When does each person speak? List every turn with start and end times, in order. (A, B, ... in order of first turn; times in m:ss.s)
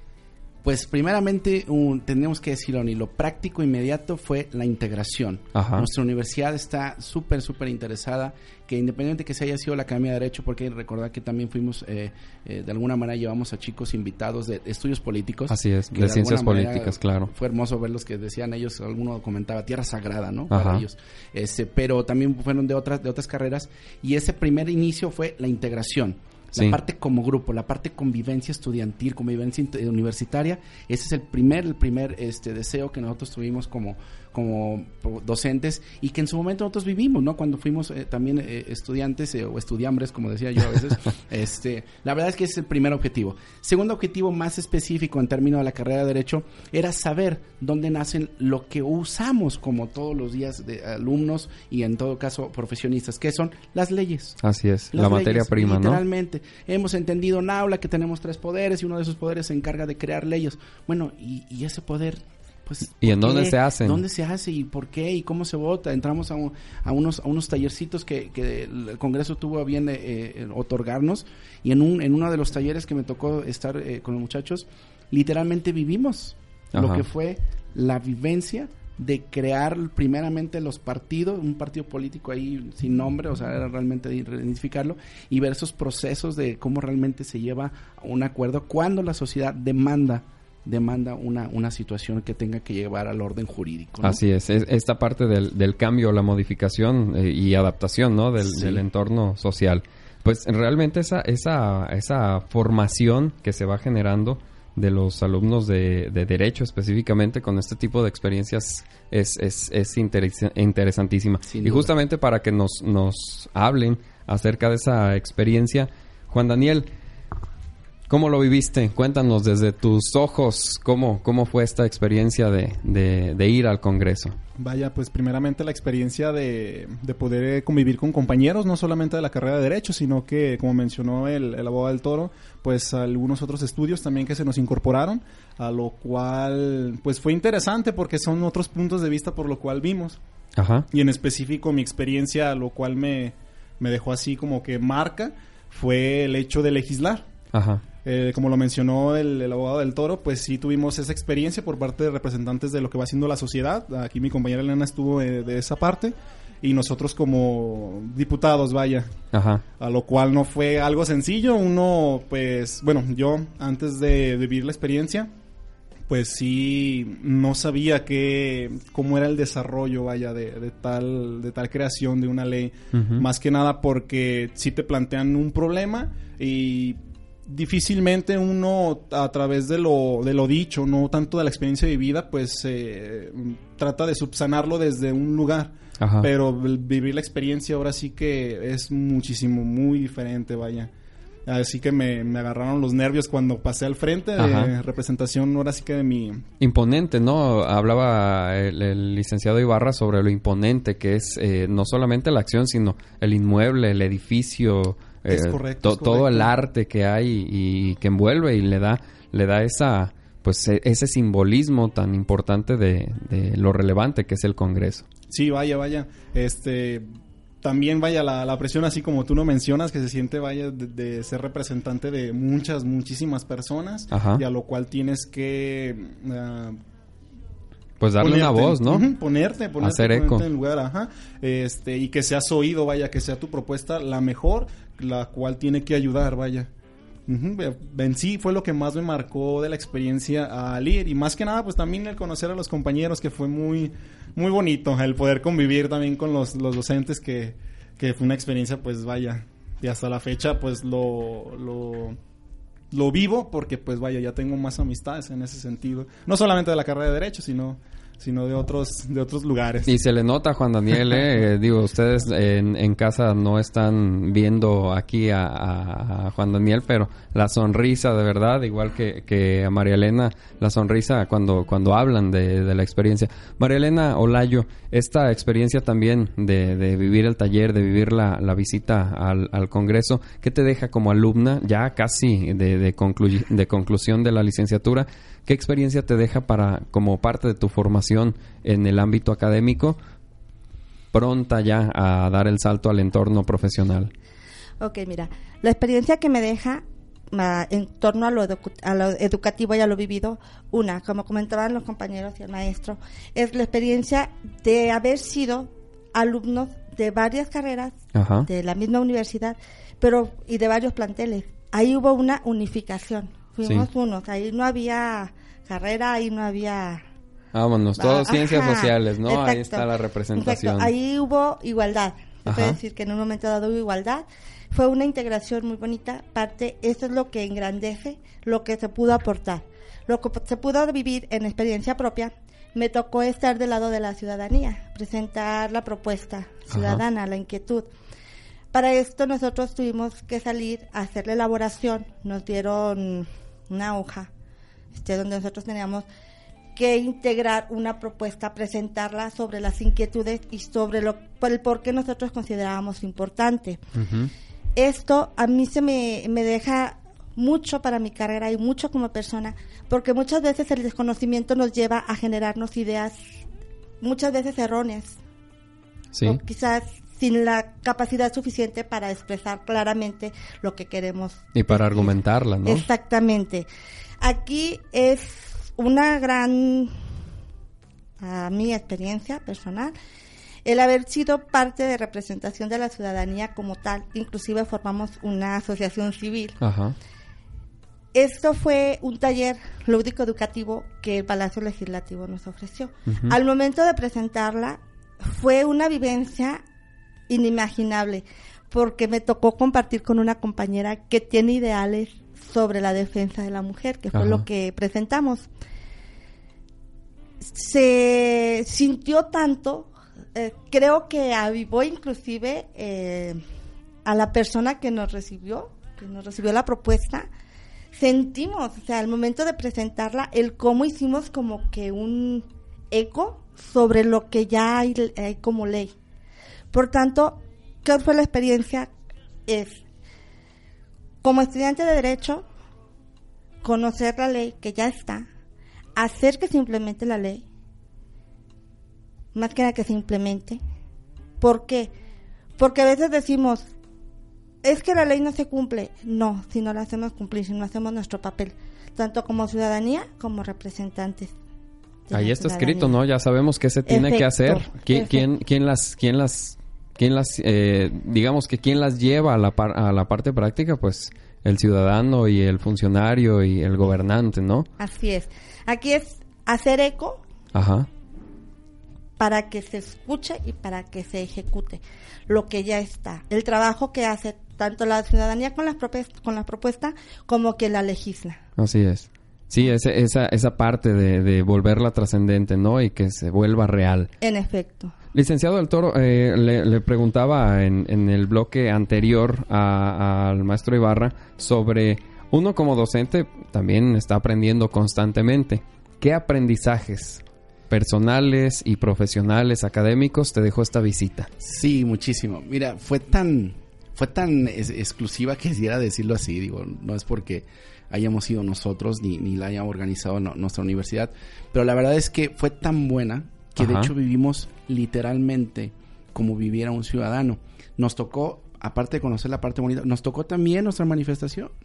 0:00.6-0:54.4 A
0:05.5-0:05.9 B
0:15.5-0:17.3 B
0:20.5-0:20.8 B
0:54.4-0:56.0 B
0:54.9-1:34.2 A
1:03.0-1:04.0 B
1:16.7-1:17.0 B
1:34.0-1:56.9 B
1:38.4-1:38.8 A
1:51.4-1:51.9 A
1:58.1-2:04.4 B
2:04.6-2:20.2 C
2:20.6-2:20.9 B
2:20.9-2:27.3 C
2:27.5-2:27.8 B
2:28.0-2:39.1 C
2:39.3-2:39.6 B
2:39.8-2:45.3 C
2:46.1-3:10.9 C
2:52.9-2:53.2 B
3:06.0-3:06.3 B
3:11.4-3:16.4 C
3:14.4-3:14.7 B
3:16.6-3:35.0 B
3:25.3-3:26.5 C
3:35.3-3:37.1 C
3:37.6-3:46.8 C
3:44.1-3:44.4 B
3:48.0-3:49.0 B
3:48.2-3:56.7 C
3:49.8-3:50.4 B
3:57.3-4:12.2 C
4:12.9-4:20.0 C
4:19.9-4:50.0 B
4:51.1-4:54.1 B
4:54.8-5:17.0 D
5:08.1-5:08.5 B
5:13.6-5:13.9 B
5:17.5-5:20.9 B
5:18.0-5:37.9 D
5:22.4-5:22.8 B
5:36.7-5:37.0 B
5:38.7-5:44.3 D
5:44.9-5:46.0 D
5:46.8-5:53.8 D
5:54.0-5:54.3 B
5:54.8-6:03.2 D
6:04.0-6:05.2 D
6:06.1-6:06.4 B
6:06.2-6:13.7 D
6:11.6-6:12.9 B
6:14.2-6:16.9 D
6:18.2-6:19.9 D
6:20.6-6:26.6 D
6:26.6-6:26.9 B
6:28.1-6:36.6 D
6:33.1-6:33.4 B
6:37.3-6:45.5 D
6:44.1-6:44.4 B
6:47.4-6:53.4 D
6:54.0-6:57.3 D
6:57.9-7:05.9 D
7:06.7-7:08.9 D
7:09.5-7:09.8 D
7:11.2-7:12.4 D
7:13.6-7:15.3 D
7:16.0-7:17.4 D
7:19.3-7:20.6 D
7:21.4-7:21.9 D
7:22.6-7:23.7 D
7:24.6-7:31.3 D
7:32.1-7:33.0 D
7:32.1-7:44.7 B
7:33.9-7:35.2 D
7:44.8-7:47.2 D
7:47.5-7:47.9 B
7:49.2-7:58.4 D
7:58.6-8:04.1 B
8:04.2-8:04.9 D
8:05.1-8:21.3 B
8:21.4-8:41.5 A
8:33.6-8:33.9 B